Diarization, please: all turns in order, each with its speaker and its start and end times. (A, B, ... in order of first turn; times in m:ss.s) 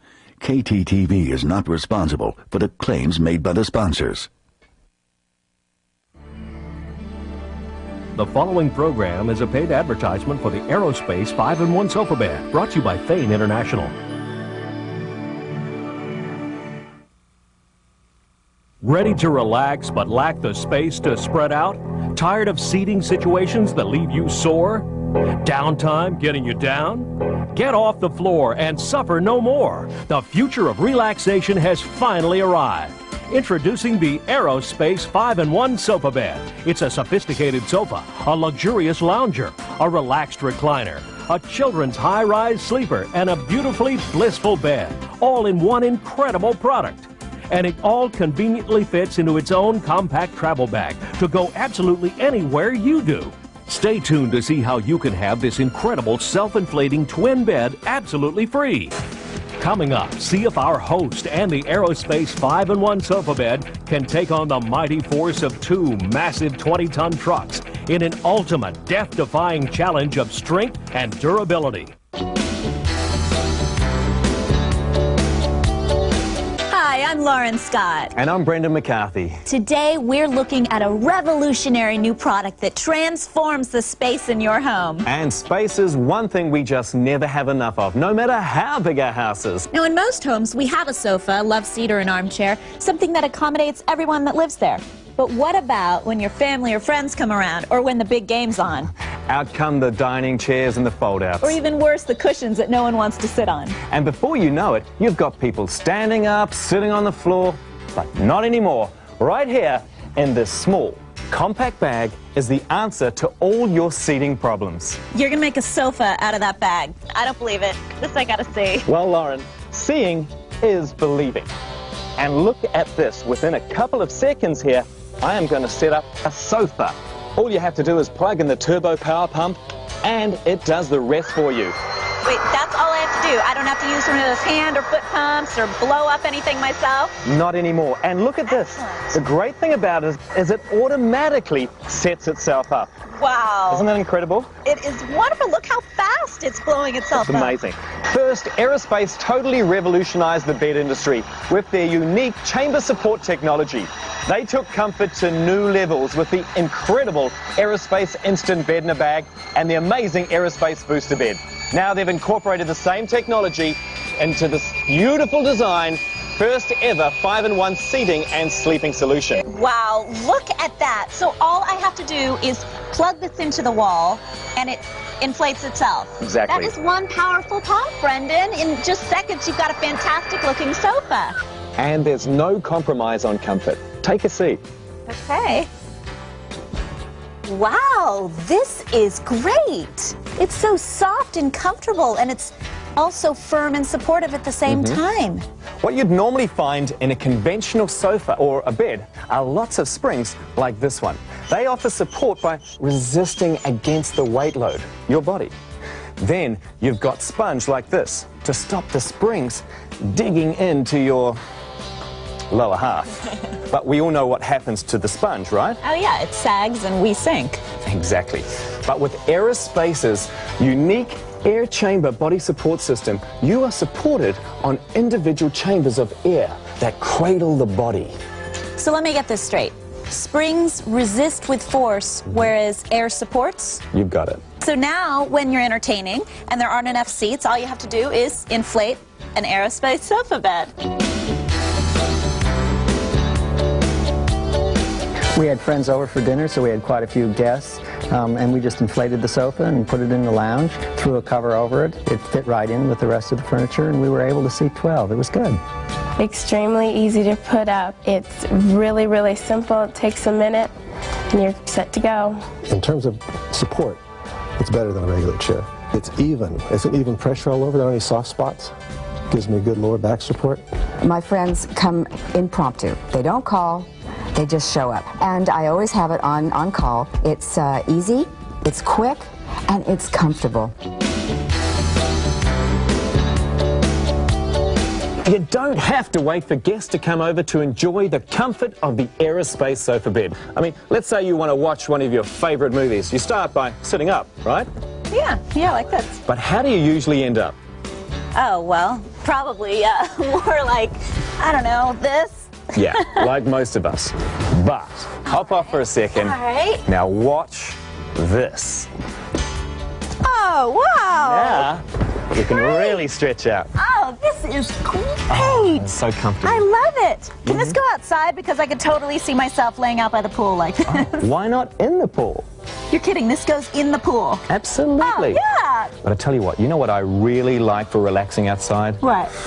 0:00.4-0:04.3 A
0:08.2-0:13.9 B
0:18.8-0:58.9 B
0:59.6-1:11.9 B
1:16.7-1:18.1 C
1:18.1-1:19.4 D
1:19.4-1:25.1 C
1:25.0-1:29.7 D
1:29.7-1:38.9 C
1:39.3-1:41.6 D
1:41.4-1:43.8 C
1:43.9-1:55.0 D
1:55.1-1:58.9 C
1:58.8-2:01.5 D
2:02.2-2:11.7 D
2:12.2-2:17.1 C
2:17.2-2:22.9 D
2:18.5-2:19.2 C
2:23.2-2:23.9 C
2:23.7-2:24.5 D
2:24.6-2:27.5 C
2:27.2-2:49.4 D
2:49.4-3:01.4 C
2:56.2-2:56.7 D
3:01.8-3:04.6 D
3:05.1-3:05.7 C
3:07.4-3:15.4 C
3:14.7-3:15.0 D
3:15.8-3:25.5 D
3:26.2-3:31.4 D
3:32.5-3:33.2 D
3:33.7-3:35.8 D
3:35.8-3:37.6 C
3:37.8-3:48.1 D
3:48.8-3:53.8 C
3:53.9-3:54.4 D
3:54.6-4:00.7 C
4:05.3-4:15.6 E
4:16.2-4:20.7 F
4:21.3-4:22.5 F
4:22.7-4:24.0 G
4:24.6-4:28.7 G
4:29.3-4:30.6 G
4:31.0-4:40.7 H
4:45.2-4:54.7 D
4:55.1-4:56.2 C
4:56.2-4:57.6 D
4:58.3-5:03.2 C
5:02.7-5:08.9 D
5:05.4-5:06.8 C
5:10.2-5:11.7 C
5:11.1-5:13.7 D
5:12.5-5:13.0 C
5:13.8-5:15.9 C
5:15.3-5:16.6 D
5:16.4-5:21.2 C
5:17.4-5:17.8 D
5:20.9-5:22.4 D
5:22.9-5:24.4 C
5:24.5-5:25.4 D
5:25.0-5:25.9 C
5:26.0-5:29.0 D
5:29.0-5:29.3 C